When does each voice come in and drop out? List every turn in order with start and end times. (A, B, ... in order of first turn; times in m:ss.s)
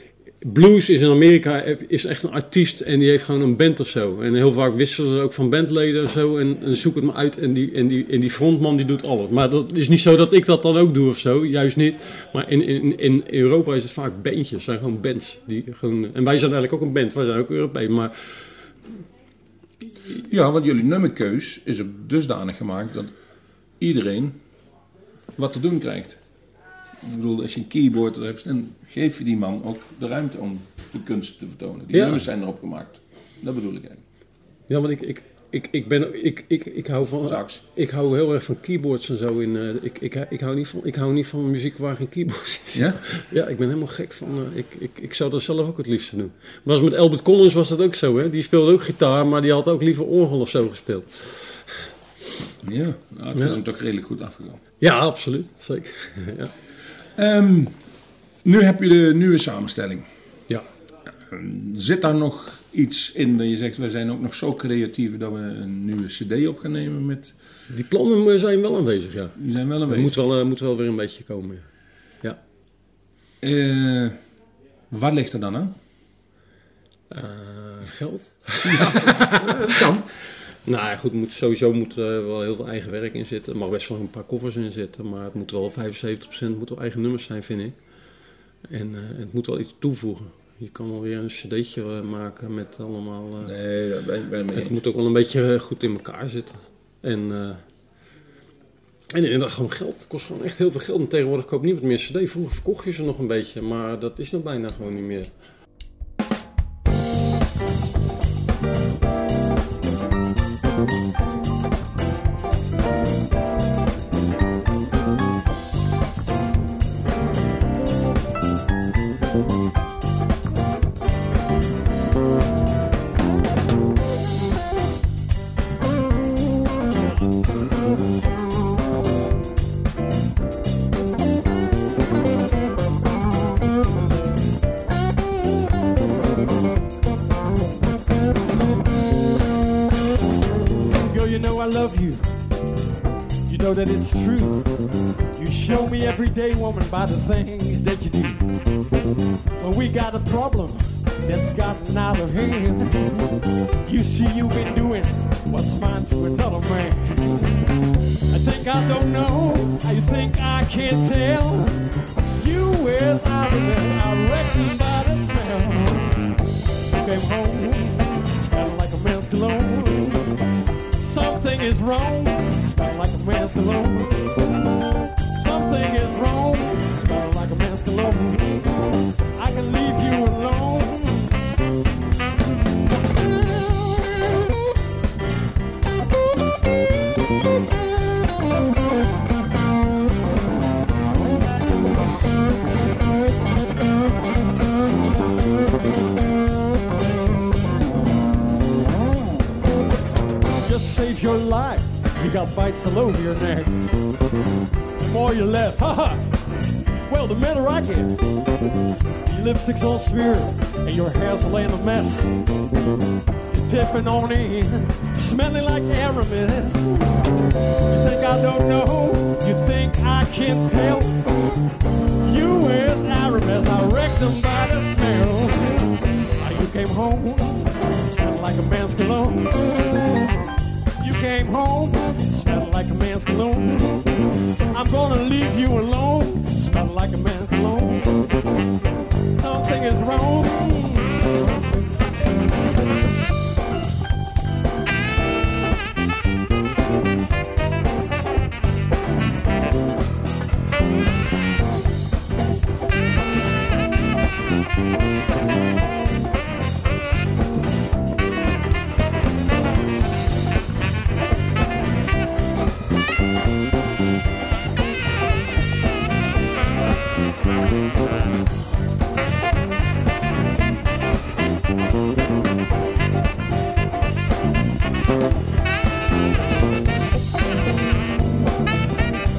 0:00.4-0:18.4 A
0:20.2-0:23.1 B
0:23.8-0:24.4 B
0:25.4-0:26.2 B
0:27.0-0:34.0 B
0:31.9-0:32.2 A
0:34.7-0:51.9 A
0:37.3-0:37.6 B
0:42.7-0:43.0 B
0:52.6-0:54.6 B
0:53.3-0:53.6 A
0:54.8-0:56.5 A
0:57.2-0:57.8 B
0:58.4-1:00.1 B
1:01.2-1:07.3 B
1:07.7-1:11.6 A
1:09.4-1:10.2 B
1:13.4-1:14.2 B
1:14.9-1:15.7 B
1:17.1-1:19.8 A
1:18.6-1:20.1 B
1:20.6-1:27.8 A
1:28.7-1:33.5 A
1:33.4-1:34.8 B
1:34.5-1:37.6 A
1:39.1-1:45.3 A
2:20.9-2:22.4 C
2:23.5-2:28.4 C
2:29.6-2:33.2 C
2:33.8-2:37.5 C
2:38.3-2:46.2 C
2:46.9-2:50.4 C
2:50.9-2:54.3 C
2:55.4-3:01.5 C
3:20.6-3:23.8 C
3:25.0-3:26.4 C
3:27.0-3:28.2 C
3:29.2-3:32.3 C
3:33.5-3:37.2 C
3:37.9-3:41.2 C
3:42.2-3:49.8 C
3:51.0-3:54.2 C
3:54.7-3:58.2 C
3:59.3-4:01.3 C